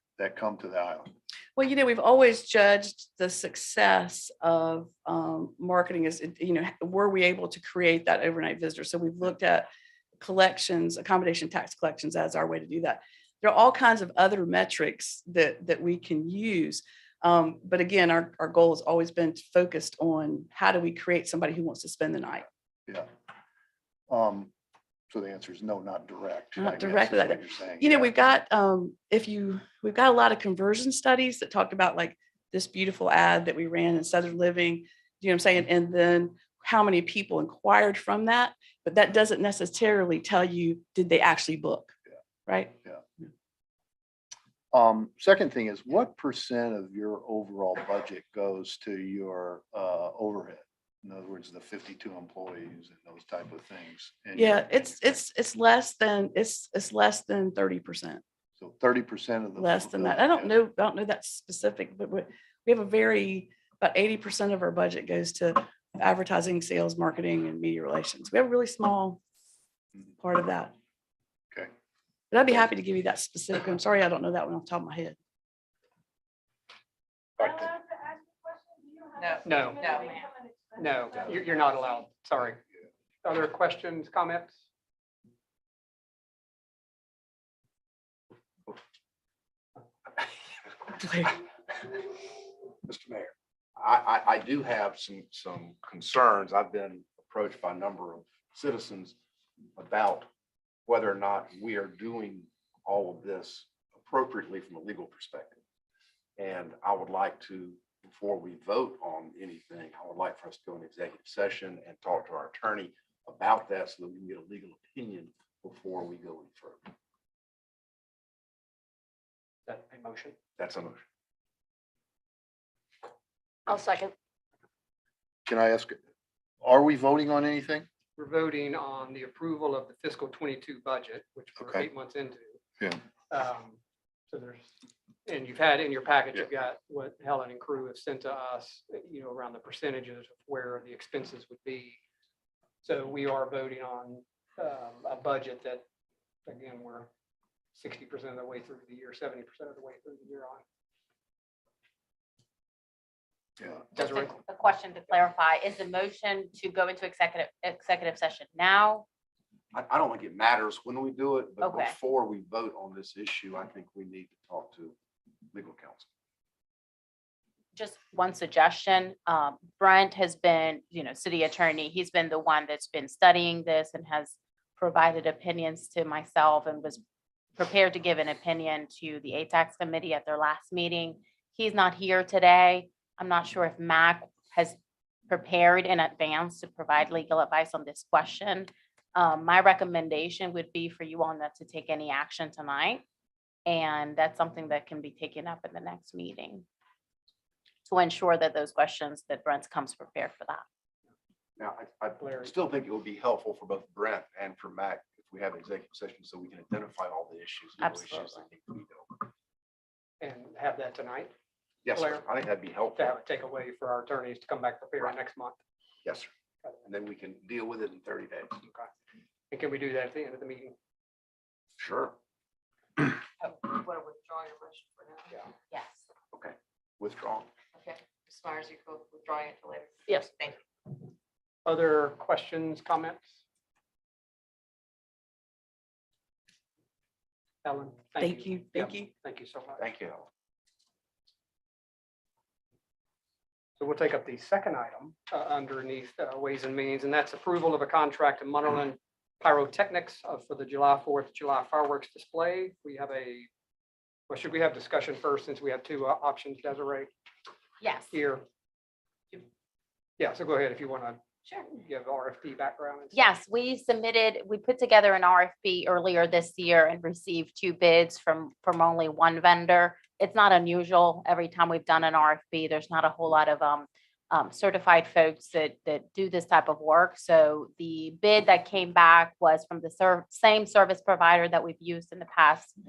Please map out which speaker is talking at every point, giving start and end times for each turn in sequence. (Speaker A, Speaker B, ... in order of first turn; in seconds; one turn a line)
Speaker A: 0.2-1.1
Speaker B: 1.6-22.5
Speaker A: 24.1-24.5
Speaker A: 25.1-28.1
Speaker B: 26.6-41.9
Speaker B: 42.5-42.8
Speaker A: 44.7-55.0
Speaker B: 54.3-58.2
Speaker A: 58.6-60.6
Speaker B: 59.5-69.2
Speaker B: 70.2-70.7
Speaker B: 72.3-75.2
Speaker C: 79.1-80.3
Speaker D: 79.4-80.0
Speaker D: 80.7-82.6
Speaker D: 83.2-84.5
Speaker E: 92.8-99.1
Speaker E: 99.8-100.3
Speaker E: 100.8-105.6
Speaker E: 106.4-116.9
Speaker D: 119.7-120.3
Speaker E: 120.6-121.0
Speaker A: 125.5-126.0
Speaker A: 126.6-127.9
Speaker D: 128.2-132.6
Speaker A: 131.6-131.9
Speaker D: 133.3-133.8
Speaker D: 134.3-142.0
Speaker D: 142.8-145.8
Speaker D: 146.4-147.1
Speaker D: 147.7-150.6
Speaker F: 153.9-159.1
Speaker D: 153.9-154.3
Speaker E: 159.7-164.9
Speaker F: 161.6-161.9
Speaker E: 165.5-166.1
Speaker F: 167.7-177.0
Speaker F: 177.6-184.8
Speaker F: 185.3-193.0
Speaker F: 193.7-196.7
Speaker F: 197.8-200.6
Speaker E: 201.6-209.3
Speaker D: 202.2-202.5
Speaker F: 207.8-208.4
Speaker D: 210.2-211.3
Speaker E: 211.8-213.1
Speaker D: 211.9-212.2
Speaker D: 212.9-215.6
Speaker E: 216.0-216.3
Speaker E: 216.8-218.6
Speaker D: 218.6-218.9
Speaker D: 219.5-220.7
Speaker E: 221.8-222.1
Speaker C: 223.4-225.3
Speaker F: 225.7-226.0
Speaker E: 226.3-227.5
Speaker C: 227.7-230.6
Speaker D: 231.6-233.2
Speaker D: 237.6-239.8
Speaker B: 238.2-239.1
Speaker E: 239.8-240.3
Speaker D: 243.8-253.5
Speaker D: 254.3-257.1
Speaker F: 257.8-258.1
Speaker D: 258.1-258.4
Speaker D: 260.2-263.1
Speaker F: 263.1-282.8